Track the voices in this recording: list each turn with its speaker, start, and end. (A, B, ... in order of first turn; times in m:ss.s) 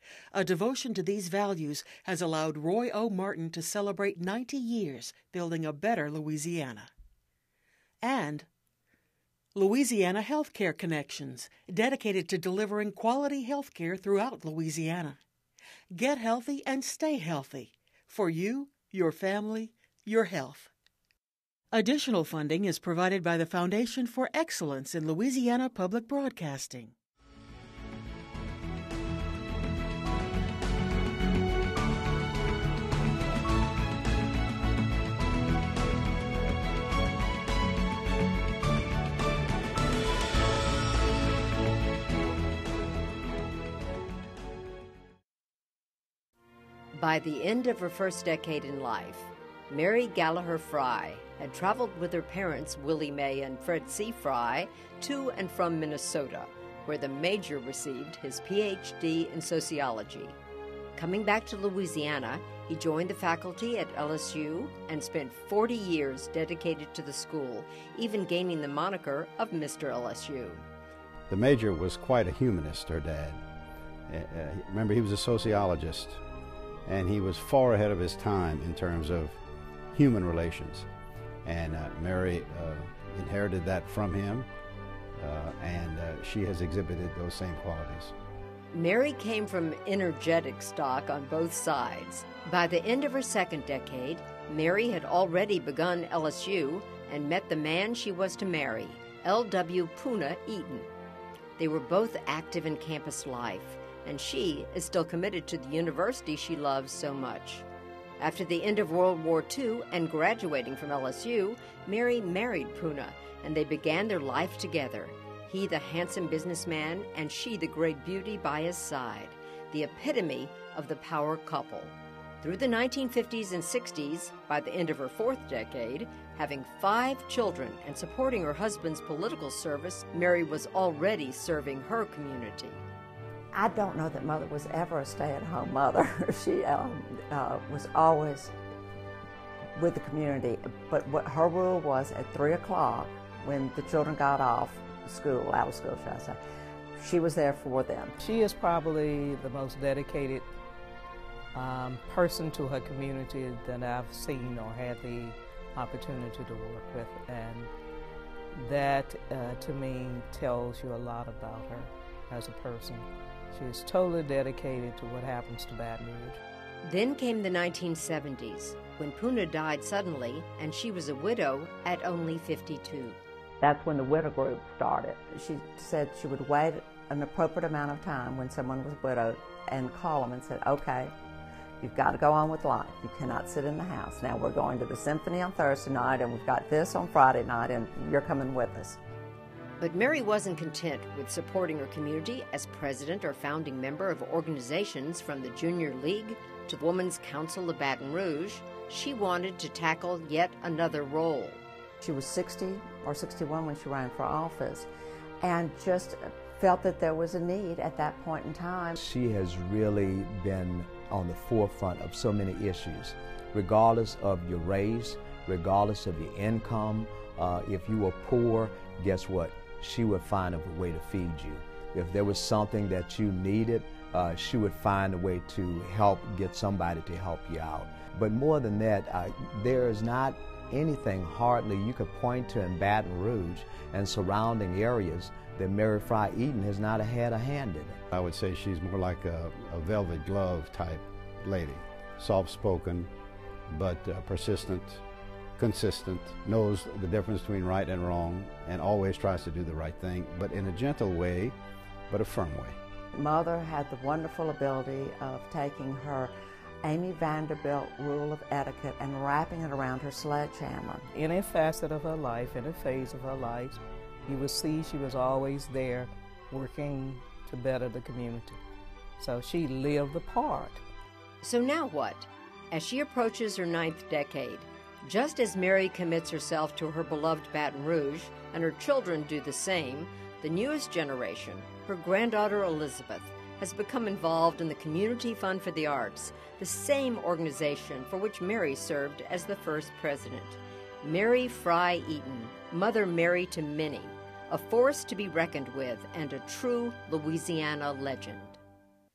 0:00.3-0:06.9 A
0:08.0-0:08.5 A
0:09.5-0:15.2 A
0:15.9-0:20.7 A
0:21.7-0:26.9 A
0:46.9-1:00.4 B
1:01.0-1:10.6 B
1:11.3-1:13.4 C
1:14.1-1:16.2 C
1:16.8-1:19.4 C
1:19.9-1:20.9 C
1:21.4-1:24.5 C
1:25.2-1:28.1 C
1:28.7-1:40.9 B
1:41.6-1:47.6 B
1:48.2-2:12.8 B
2:13.5-2:18.6 D
2:19.8-2:26.4 D
2:27.0-2:28.1 D
2:28.2-2:30.5 E
2:31.5-2:37.7 E
2:38.6-2:46.4 E
2:46.8-2:53.2 B
2:53.6-3:01.1 D
3:01.8-3:09.0 D
3:09.8-3:21.6 B
3:22.0-3:24.9 D
3:25.4-3:29.0 D
3:29.0-3:58.0 F
3:58.1-4:03.1 C
4:03.7-4:05.0 C
4:05.6-4:11.6 C
4:12.1-4:12.8 C
4:13.1-4:16.3 D
4:16.8-4:21.1 D
4:21.1-4:28.6 E
4:29.2-4:30.8 E
4:31.4-4:58.6 B